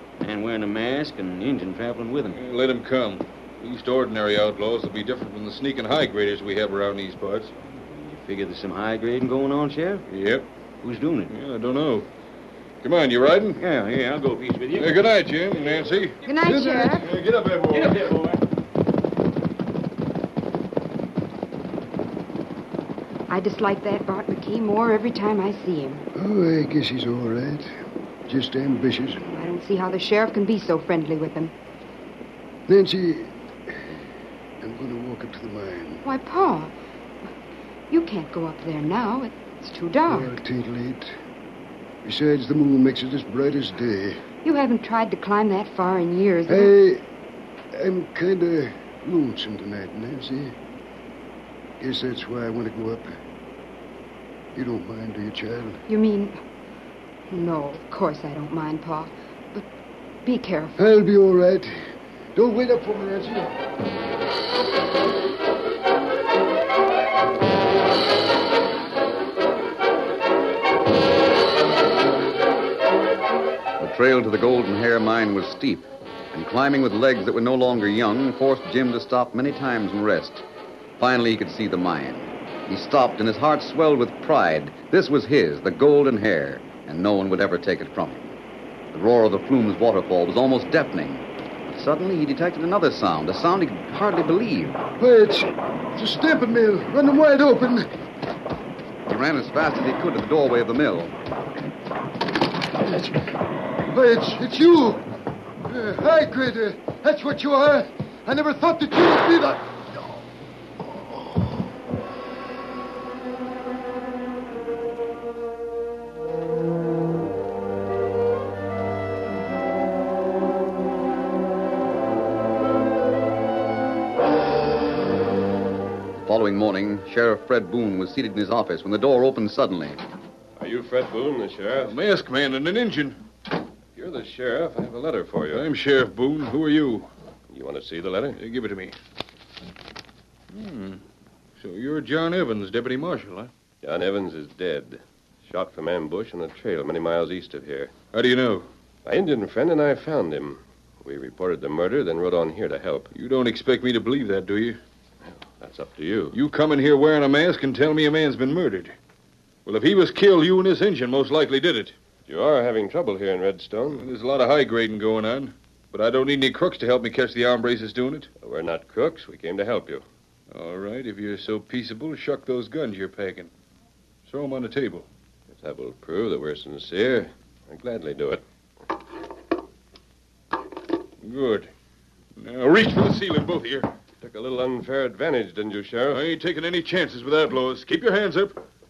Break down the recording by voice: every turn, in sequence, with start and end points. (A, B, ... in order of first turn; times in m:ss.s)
0:00.2-0:02.4 A
0:02.3-0:07.5 B
0:07.6-0:10.0 A
0:10.1-0:10.5 B
0:10.8-0:11.3 A
0:11.3-0:12.1 B
0:12.8-0:13.6 B
0:13.6-0:16.1 A
0:14.7-0:18.1 B
0:16.2-0:17.1 C
0:17.7-0:18.4 A
0:23.3-0:26.0 C
0:26.1-0:27.7 D
0:28.3-0:29.2 D
0:29.2-0:31.5 C
0:32.7-0:34.0 D
0:34.6-0:36.0 D
0:36.0-0:36.7 C
0:37.9-0:40.3 C
0:40.1-0:41.1 D
0:42.0-0:44.2 D
0:44.4-0:46.7 C
0:46.5-0:47.0 D
0:47.7-0:50.5 D
0:51.8-0:53.2 D
0:54.5-0:55.8 D
0:55.9-0:56.4 C
0:57.3-0:59.6 C
1:00.2-1:00.8 C
1:00.8-1:01.8 D
1:02.3-1:03.5 D
1:13.8-1:20.4 E
1:21.0-1:28.4 E
1:28.9-1:34.8 E
1:35.0-1:37.9 D
1:39.1-1:41.1 E
1:42.8-1:43.2 D
1:43.9-1:45.0 D
1:45.7-1:49.8 D
2:06.2-2:10.0 E
2:10.6-2:12.0 F
2:11.8-2:13.2 B
2:14.0-2:15.6 F
2:15.5-2:17.1 B
2:17.5-2:18.4 F
2:18.4-2:18.9 B
2:20.5-2:21.0 B
2:21.6-2:23.5 B
2:23.8-2:27.9 F
2:28.1-2:28.7 B
2:29.0-2:33.1 F
2:33.1-2:34.8 B
2:35.3-2:36.4 F
2:36.3-2:38.9 B
2:39.6-2:41.9 B
2:42.3-2:44.0 F
2:43.9-2:48.3 B
2:48.4-2:50.0 F
2:50.5-2:53.5 B
2:54.2-2:55.1 B
2:55.5-2:58.4 F
3:01.2-3:01.7 B
3:02.4-3:03.9 B
3:04.2-3:06.2 F
3:06.1-3:08.6 B